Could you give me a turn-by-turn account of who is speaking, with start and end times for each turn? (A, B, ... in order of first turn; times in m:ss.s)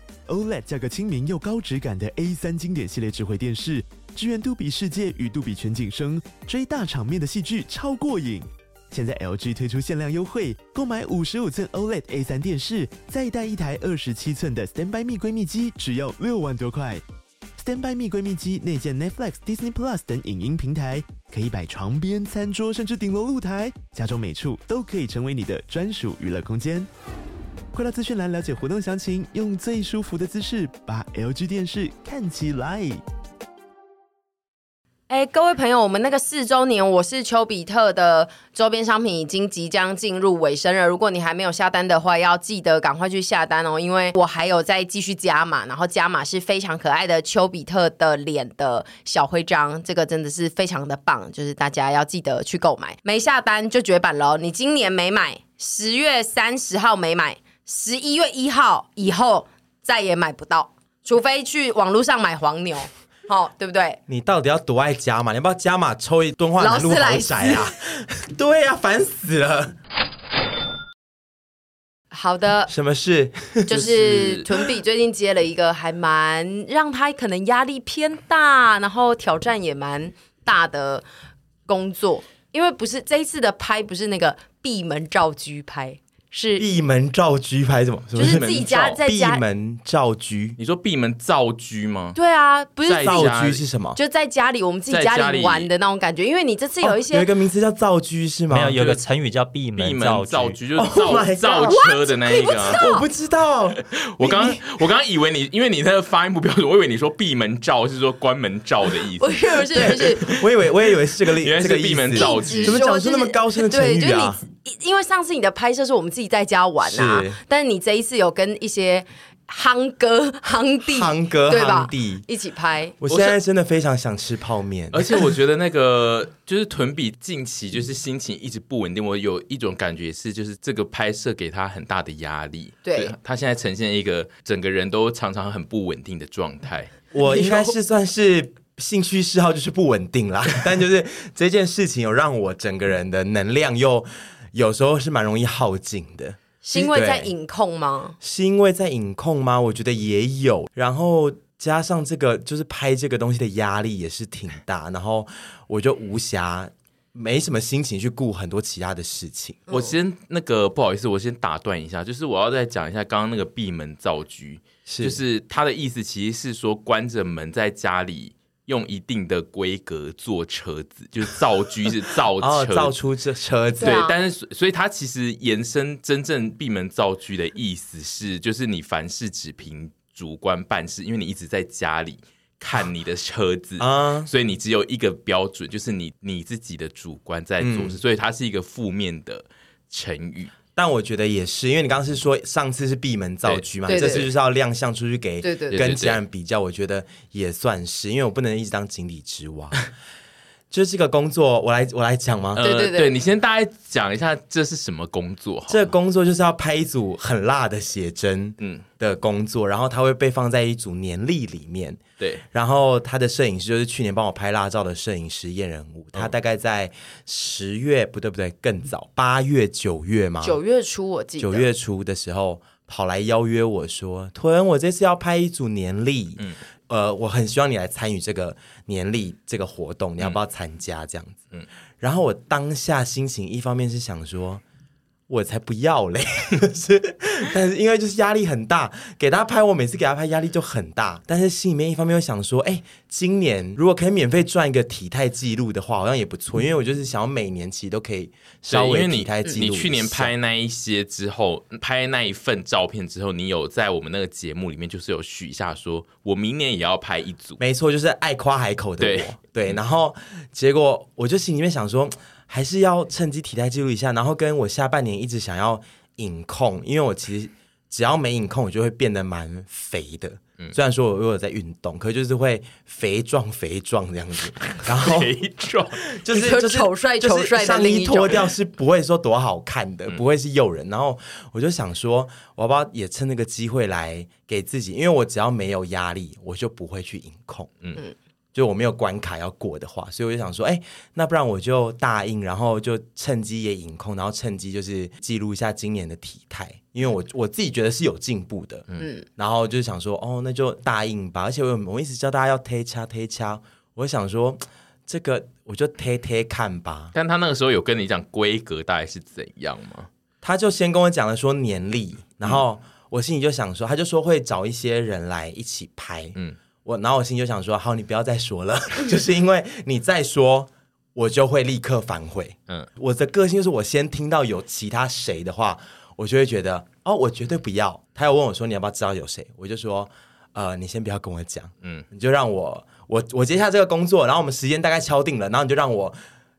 0:00.3-0:17.0 A
0:17.6-0:26.9 A
0:27.7-0:33.0 A
0:35.1-1:04.0 B
1:04.1-1:09.8 C
1:06.6-1:07.7 B
1:12.1-1:12.7 B
1:12.7-1:13.8 C
1:13.7-1:21.0 B
1:13.7-1:14.4 D
1:21.7-1:26.6 B
1:26.6-1:30.6 C
1:28.1-1:29.4 B
1:30.6-1:32.2 D
1:32.1-1:33.3 B
1:32.8-1:33.6 D
1:33.0-1:34.0 C
1:33.9-1:37.3 B
1:34.9-1:35.7 D
1:36.8-1:39.0 C
1:38.5-1:40.6 E
1:39.7-1:42.8 D
1:40.7-1:41.8 C
1:41.5-1:43.0 B
1:42.7-1:44.6 C
1:43.9-1:50.4 D
1:49.2-1:50.3 B
1:49.7-1:54.4 C
1:51.4-1:52.8 D
1:52.2-2:03.0 B
1:56.8-1:57.4 C
2:00.9-2:02.2 C
2:03.0-2:05.2 C
2:04.9-2:16.9 D
2:12.8-2:13.1 B
2:17.1-2:27.3 C
2:17.2-2:17.7 B
2:26.6-2:28.2 B
2:28.2-2:39.7 C
2:39.7-2:52.9 D
2:44.8-2:45.2 C
2:52.4-2:54.0 C
2:53.8-2:54.2 B
2:53.8-3:10.5 D
3:03.8-3:04.3 C
3:07.6-3:08.0 C
3:10.7-3:19.9 C
3:13.4-3:14.2 D
3:13.9-3:14.2 B
3:15.4-3:15.8 B
3:15.7-3:16.2 D
3:20.7-3:22.6 C
3:22.6-3:25.9 D
3:22.6-3:23.1 B
3:25.7-3:40.6 C
3:40.4-3:41.7 B
3:41.4-3:51.5 C
3:52.0-3:54.6 C
3:55.3-4:10.3 C
4:08.7-4:17.6 D
4:17.6-4:35.4 C
4:19.0-4:19.3 D
4:34.8-4:36.0 D
4:36.1-4:47.7 C
4:36.3-4:38.4 B
4:48.5-4:58.8 C
4:59.0-4:59.2 B
4:59.4-5:07.1 C
5:07.1-5:10.1 D
5:10.4-5:36.2 C